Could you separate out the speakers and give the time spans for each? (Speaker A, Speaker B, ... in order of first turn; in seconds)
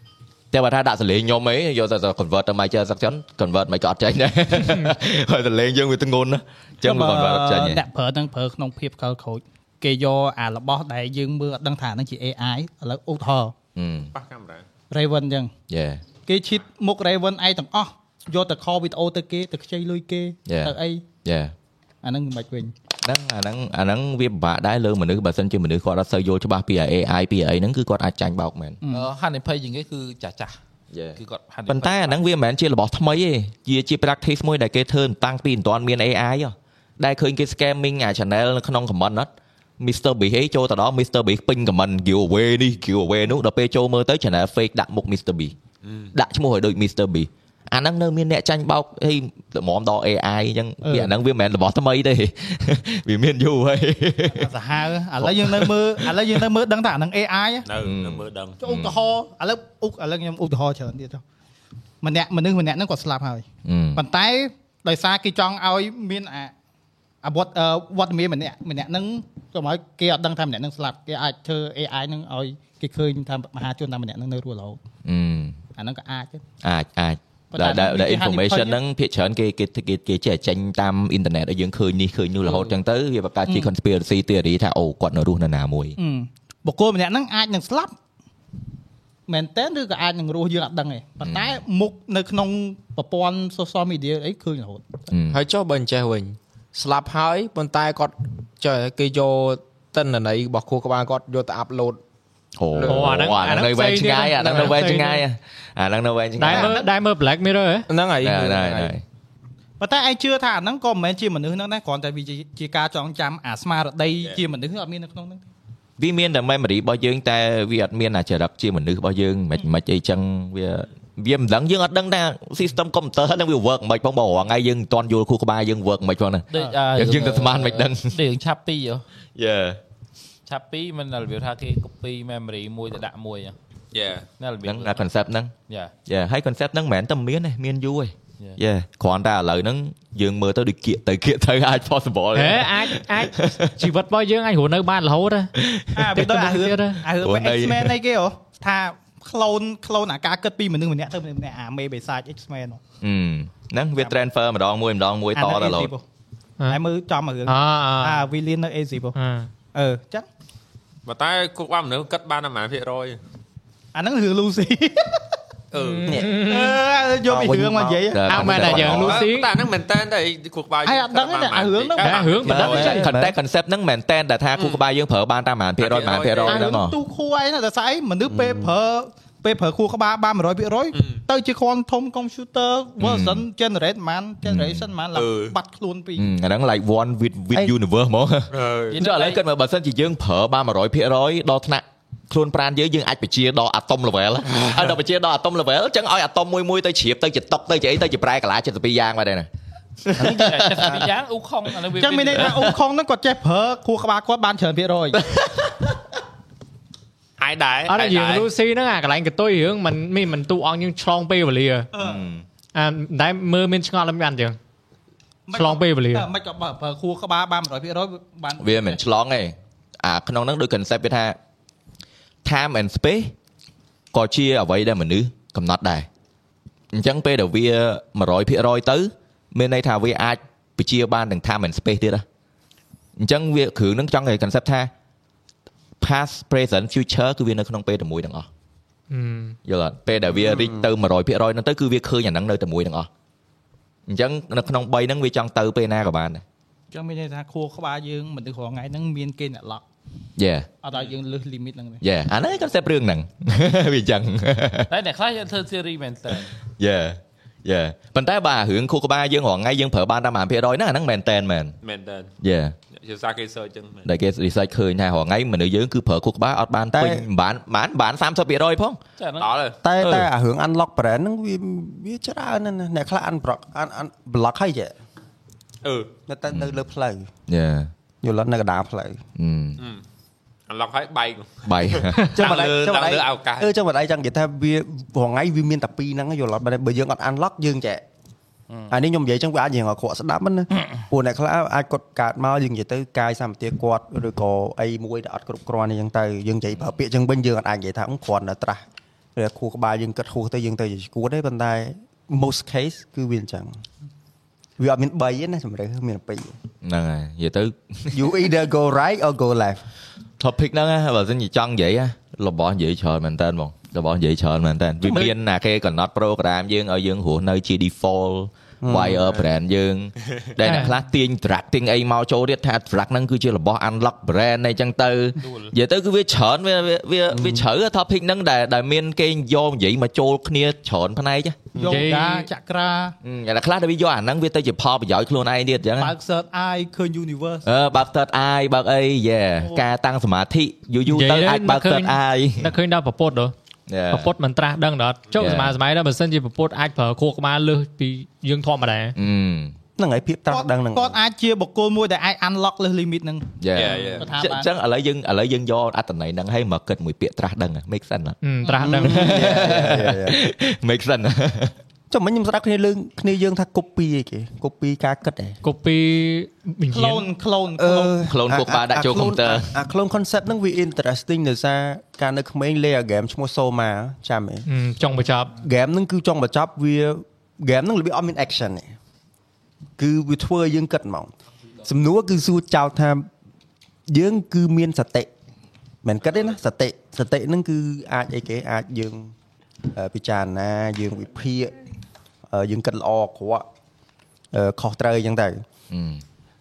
Speaker A: 0.5-7.8, 13.8-14.1, 15.7-16.0, 20.5-21.5, 23.0-28.8, 30.9-45.5, 46.1-54.5, 55.2-56.4, 57.8-59.0, 63.6-64.0, 75.0-75.6, 76.6-86.0, 91.2-91.6, 95.1-95.4, 102.6-106.8, 108.2-109.0, 116.0-128.2, 129.3-129.8, 134.6-135.5, 136.1-143.7, 145.5-146.2, 147.2-147.9, 153.0-155.9, 168.1-169.2, 172.4-177.0, 183.0-183.4, 184.4-184.9, 186.2-199.5, 200.0-201.0, 205.4-205.6, 212.0-212.4, 218.6-221.4, 222.4-223.3, 224.1-226.1, 226.9-232.2, 233.2-234.9, 236.0-238.5, 239.7-243.1, 244.1-246.4, 250.4-250.7, 252.0-254.9, 256.8-261.8, 262.4-262.7, 264.0-269.0, 277.5-277.9, 279.4-279.8, 281.6-282.7, 306.8-308.3, 310.4-331.6, 333.2-336.1, 337.6-342.7, 343.9-344.3, 345.4-345.7, 349.2-349.7, 353.6-358.4, 359.0-361.7, 368.3-369.7, 395.9-396.2
Speaker B: 6.8-13.5, 14.9-15.5, 16.2-21.0, 22.0-22.7, 28.8-29.1, 50.8-51.1, 54.3-57.7, 58.6-61.2, 62.0-66.5, 67.2-74.8, 75.8-76.4, 77.5-78.8, 86.0-87.9, 89.3-94.9, 106.4-106.9, 109.8-115.4, 145.9-152.8, 155.3-156.0, 156.7-159.1, 159.7-160.3, 163.9-165.2, 166.4-168.2, 170.8-172.5, 176.5-186.3, 201.9-205.2, 211.9-212.2, 215.5-219.0, 246.9-249.8, 250.8-252.0, 331.8-333.1, 336.0-337.6, 350.5-354.7, 358.6-359.0, 366.9-368.2
Speaker C: 14.1-14.6, 45.8-46.1, 57.7-58.6, 133.9-134.2, 161.1-163.2, 165.7-166.1, 168.7-173.0, 175.8-176.7, 180.9-181.2, 185.1-185.6, 188.5-189.0, 207.4-208.5, 261.8-262.3, 262.9-264.1, 269.4-270.2, 275.8-276.1, 280.7-283.7, 325.4-325.7, 353.7-354.3
Speaker D: 28.9-30.5, 31.1-32.2, 126.5-129.0, 130.5-133.5, 134.4-135.0, 188.9-189.4, 200.2-202.7, 254.9-256.5, 269.2-269.5
Speaker E: 95.3-102.0, 107.9-108.9
Speaker F: 102.8-105.2, 106.4-107.9, 142.3-145.5, 146.1-147.0, 157.5-158.2, 159.1-159.5, 165.7-166.8, 168.3-169.5, 172.0-173.1, 207.9-211.9, 212.7-214.6, 215.5-216.3, 239.1-239.6, 320.6-320.9, 331.8-332.5, 341.1-343.5, 344.1-349.1, 358.4-359.4, 365.6-367.2, 374.7-375.5
Speaker G: 166.1-166.3, 167.2-168.6, 172.9-173.3, 178.2-178.7, 240.3-240.9, 266.9-267.2, 269.8-274.9, 276.3-277.3, 278.2-279.2, 282.4-288.0, 288.9-298.8, 299.3-303.8, 304.8-306.6, 308.1-309.8, 315.0-315.3, 318.8-319.2, 327.3-327.6, 331.7-332.1, 350.0-351.2, 358.8-360.4, 362.1-365.6, 367.8-374.6, 375.6-378.9, 380.0-383.3, 384.1-385.3, 386.0-389.3, 389.9-391.8, 392.5-393.6, 394.5-395.6